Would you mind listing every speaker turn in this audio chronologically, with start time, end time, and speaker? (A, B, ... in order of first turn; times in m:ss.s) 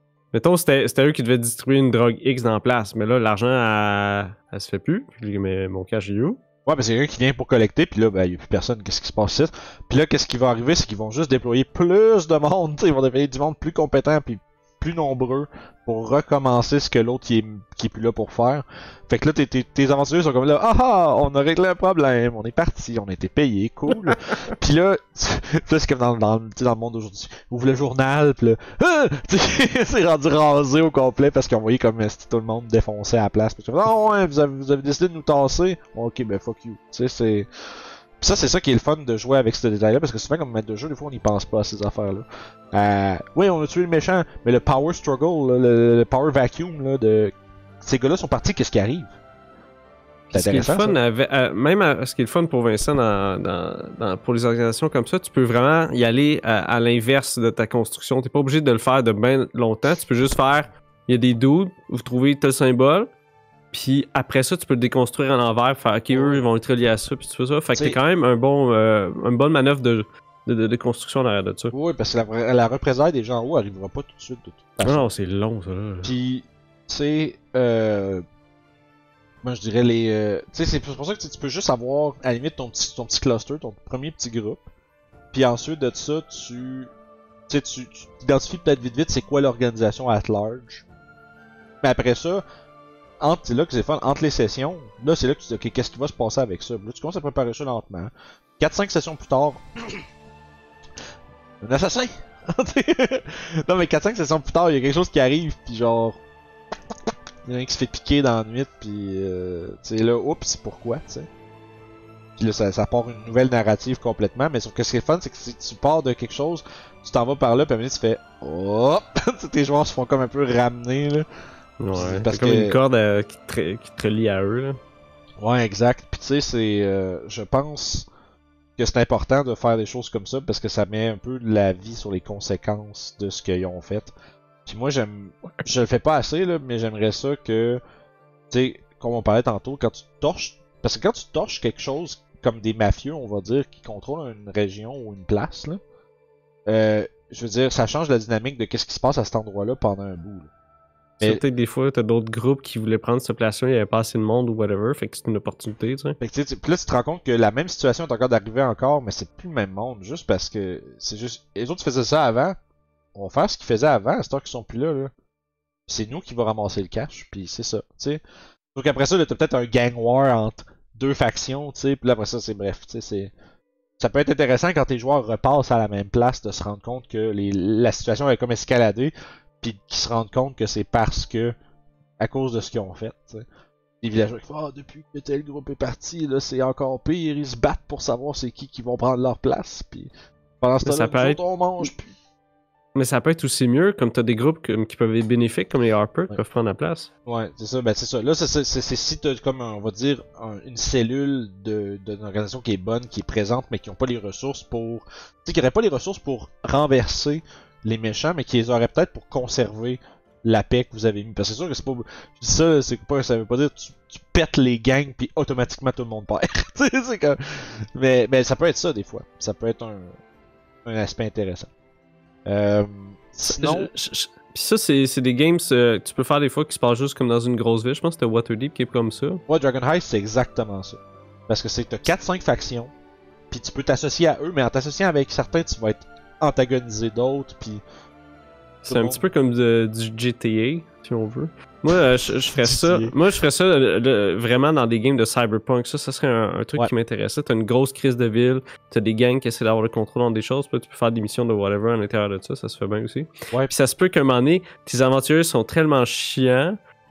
0:00.3-0:06.4 A
0:06.7-0:37.5 B
0:23.9-0:24.2 A
0:38.2-0:49.1 B
0:50.3-1:03.1 A
0:50.3-0:51.0 B
1:03.7-1:11.7 A
1:06.1-1:06.4 B
1:07.7-1:08.0 B
1:11.7-1:15.1 B
1:14.8-1:16.1 A
1:16.0-1:18.2 B
1:19.4-1:24.7 B
1:25.3-1:26.9 B
1:27.5-1:30.8 B
1:31.8-1:32.4 B
1:33.2-1:40.0 B
1:41.6-1:46.2 B
1:47.5-1:51.3 B
1:52.4-2:01.2 B
2:01.8-2:04.8 A
2:01.9-2:02.8 B
2:05.4-2:08.1 B
2:08.8-2:14.1 B
2:14.7-2:17.8 B
2:18.5-2:25.8 B
2:26.7-2:30.5 B
2:31.2-2:36.2 A
2:36.2-2:42.6 B
2:43.2-2:45.1 B
2:45.9-2:48.2 B
2:48.8-2:53.3 B
2:54.0-3:01.6 B
3:02.2-3:03.4 B
3:04.0-3:12.0 B
3:10.8-3:11.9 A
3:12.9-3:17.1 A
3:17.3-3:40.1 B
3:40.8-3:41.7 B
3:42.5-3:43.9 B
3:43.4-3:49.4 A
3:49.5-3:52.9 B
3:53.5-3:57.8 B
3:58.9-4:16.8 A
3:58.9-3:59.2 B
4:02.6-4:03.1 B